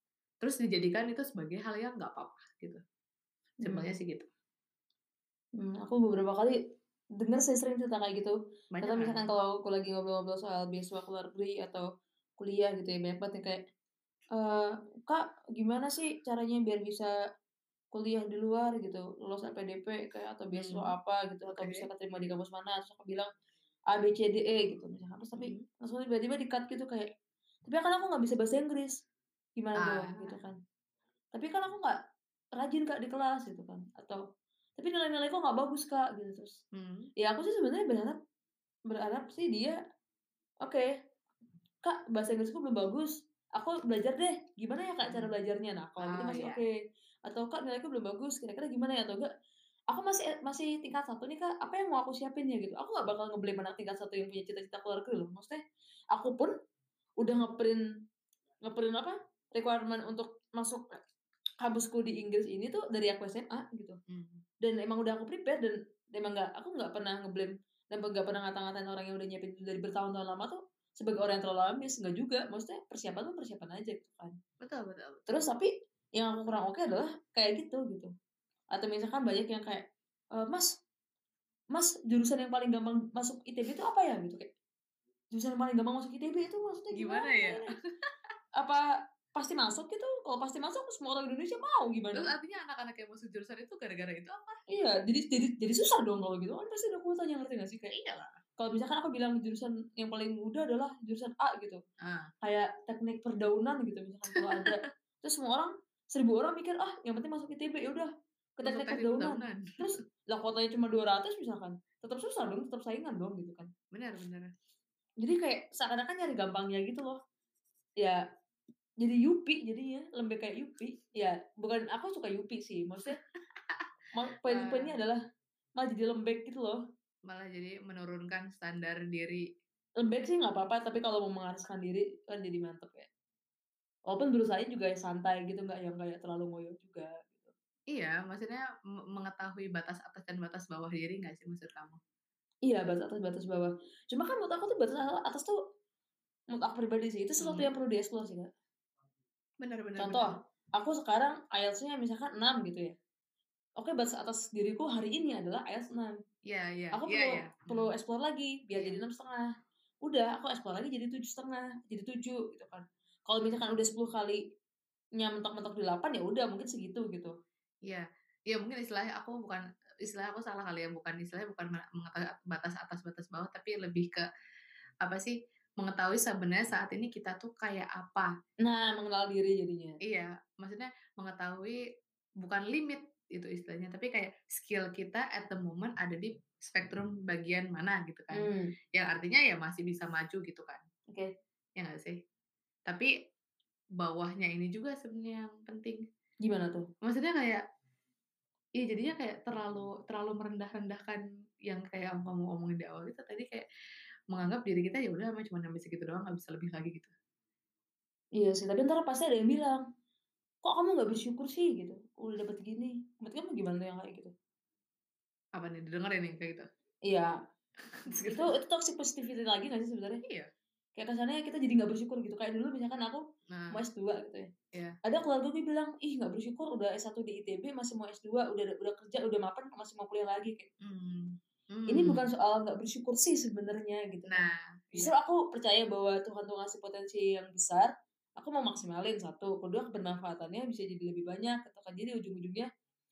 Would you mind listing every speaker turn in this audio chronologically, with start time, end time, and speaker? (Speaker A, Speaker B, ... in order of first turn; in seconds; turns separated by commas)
Speaker A: 0.4-2.8, Speaker B: 3.6-3.9, Speaker A: 3.6-4.3, Speaker B: 5.6-6.6, Speaker B: 7.2-13.6, Speaker A: 8.7-9.3, Speaker B: 14.3-17.1, Speaker B: 17.9-23.3, Speaker A: 20.5-20.9, Speaker A: 21.5-21.9, Speaker B: 23.9-27.1, Speaker A: 25.4-25.6, Speaker B: 27.6-29.0, Speaker B: 29.6-30.5, Speaker A: 29.8-30.4, Speaker B: 31.3-31.9, Speaker B: 32.5-34.2, Speaker B: 34.8-36.6, Speaker A: 36.7-37.1, Speaker B: 37.2-38.2, Speaker B: 38.9-39.8, Speaker B: 41.8-46.7, Speaker A: 45.0-45.3, Speaker A: 46.0-46.6, Speaker B: 47.2-49.3, Speaker B: 49.9-55.6, Speaker B: 56.1-56.5, Speaker B: 57.2-57.8, Speaker B: 58.7-60.8, Speaker B: 61.6-64.0, Speaker A: 64.1-64.4, Speaker B: 64.6-74.4, Speaker A: 74.6-75.3, Speaker B: 75.3-78.1, Speaker B: 78.7-80.8, Speaker B: 81.7-84.5, Speaker B: 85.3-87.7, Speaker A: 86.9-88.1, Speaker B: 88.6-88.8, Speaker B: 89.3-92.3, Speaker A: 92.1-94.6, Speaker B: 94.7-97.9, Speaker A: 97.9-98.4, Speaker B: 98.6-101.8, Speaker A: 102.0-102.3, Speaker B: 102.4-113.7, Speaker A: 104.3-104.8, Speaker A: 108.6-109.9, Speaker A: 113.9-114.5, Speaker B: 115.2-117.2, Speaker B: 119.0-123.2, Speaker A: 123.6-123.8, Speaker B: 124.1-125.2, Speaker A: 124.4-125.0, Speaker B: 125.8-126.8, Speaker A: 127.2-129.4, Speaker B: 130.0-133.1, Speaker B: 134.1-137.5, Speaker A: 137.9-142.0, Speaker B: 142.6-145.5, Speaker B: 146.5-148.5, Speaker A: 147.4-147.7, Speaker A: 149.6-150.3, Speaker B: 150.0-152.9, Speaker B: 153.8-156.2, Speaker A: 156.5-157.9, Speaker B: 156.9-159.5, Speaker A: 158.7-159.0, Speaker B: 160.0-164.4, Speaker B: 165.2-167.3, Speaker A: 167.9-174.3, Speaker A: 175.0-178.3, Speaker B: 178.6-180.0, Speaker A: 180.0-181.8, Speaker A: 182.4-190.8, Speaker B: 188.3-188.7, Speaker A: 191.8-192.2, Speaker A: 194.0-196.0, Speaker B: 196.4-196.9, Speaker A: 197.0-197.6, Speaker A: 198.8-203.7, Speaker A: 204.3-207.1, Speaker B: 208.4-209.8, Speaker B: 210.6-214.3, Speaker A: 215.5-216.7, Speaker B: 217.1-217.3, Speaker A: 217.9-218.6, Speaker B: 218.1-220.2, Speaker A: 220.2-220.5, Speaker B: 220.9-224.5, Speaker A: 223.5-223.8, Speaker B: 225.0-230.7, Speaker A: 230.8-232.2, Speaker B: 231.9-234.4, Speaker A: 234.3-235.1, Speaker B: 234.9-242.7